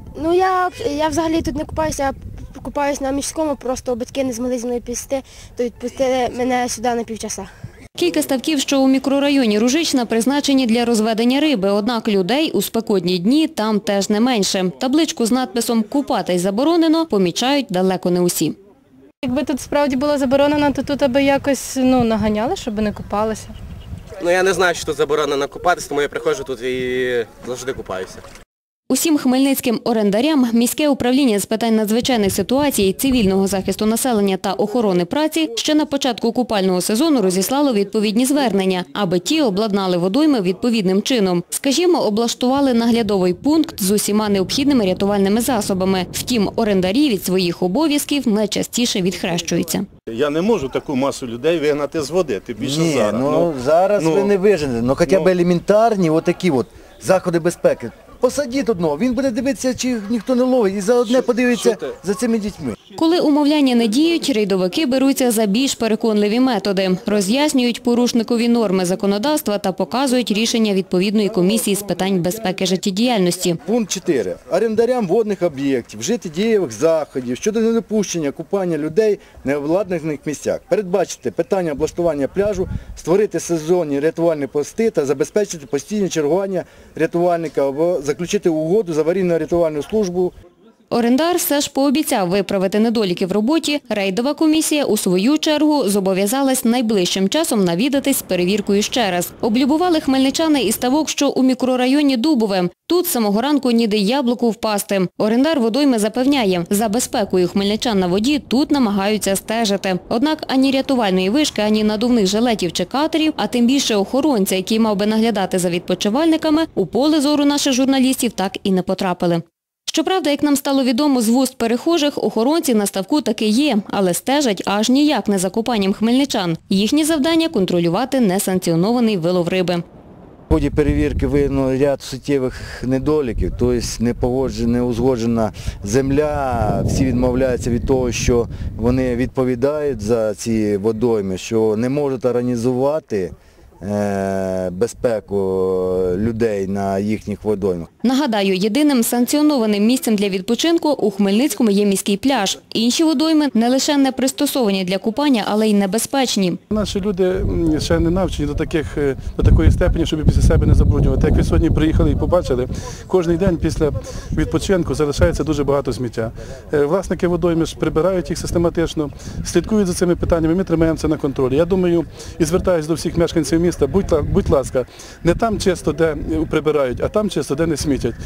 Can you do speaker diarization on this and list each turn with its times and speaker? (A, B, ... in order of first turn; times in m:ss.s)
0:00.1-0:07.5 A
0:08.0-0:18.6 B
0:19.2-0:23.5 C
0:24.2-0:28.2 D
0:28.9-0:49.9 B
0:50.1-0:54.3 E
0:52.6-1:02.7 F
1:01.5-1:01.8 E
1:03.0-1:13.6 B
1:13.6-1:30.3 F
1:30.9-2:09.8 B
2:10.5-2:27.9 F
2:28.0-2:36.6 B
2:36.7-2:58.2 G